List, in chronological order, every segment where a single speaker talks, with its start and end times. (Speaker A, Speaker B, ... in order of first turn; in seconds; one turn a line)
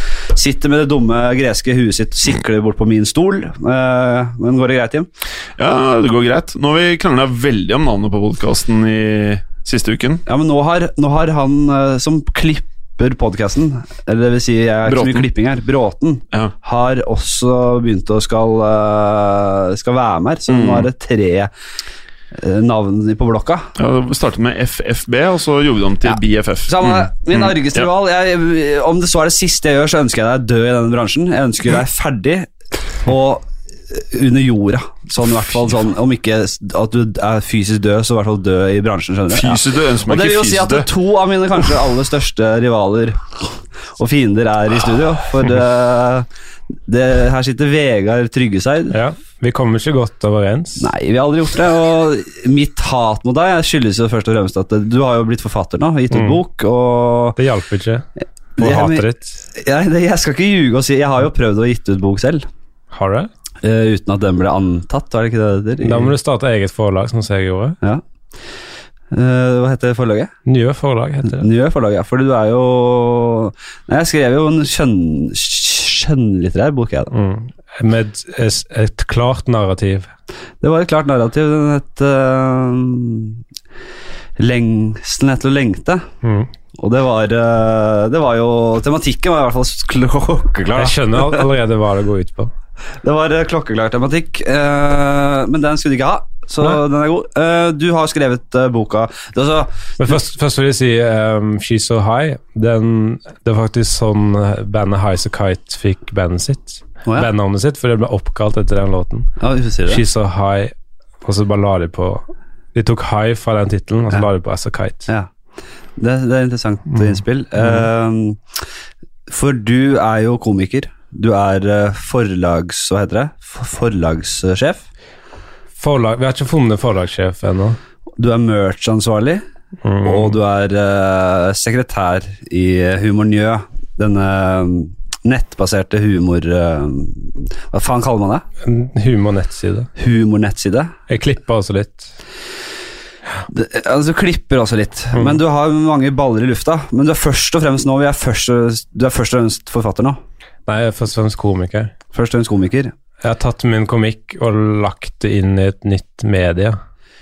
Speaker A: 0.3-5.1
Speaker B: 5.6-10.2
Speaker A: 10.3-21.5
Speaker B: 14.9-15.3
Speaker B: 20.5-20.9
Speaker A: 22.3-23.7
Speaker B: 23.8-27.8
Speaker A: 26.1-32.5
Speaker A: 33.0-46.3
Speaker B: 39.3-40.9
Speaker A: 46.9-49.0
Speaker C: 48.9-50.9
Speaker A: 50.8-57.4
Speaker C: 56.1-56.4
Speaker C: 57.4-58.1
Speaker A: 58.6-62.5
Speaker C: 58.6-59.4
Speaker C: 62.9-63.3
Speaker A: 63.6-66.1
Speaker C: 65.8-67.8
Speaker A: 69.1-70.3
Speaker C: 70.5-71.5
Speaker A: 71.2-77.1
Speaker C: 77.1-80.1
Speaker A: 80.6-83.4
Speaker A: 84.4-86.0
Speaker C: 86.2-86.5
Speaker A: 86.8-91.5
Speaker C: 90.8-92.5
Speaker A: 93.0-99.9
Speaker C: 100.0-109.3
Speaker A: 109.4-110.0
Speaker C: 109.8-115.1
Speaker A: 116.0-118.4
Speaker C: 117.6-117.9
Speaker A: 119.3-124.8
Speaker C: 125.8-127.8
Speaker A: 128.2-129.4
Speaker C: 129.8-130.4
Speaker A: 130.0-138.4
Speaker C: 138.6-139.9
Speaker A: 140.0-140.9
Speaker C: 141.1-142.1
Speaker A: 143.5-150.2
Speaker C: 150.7-151.9
Speaker A: 152.1-152.9
Speaker C: 153.2-156.8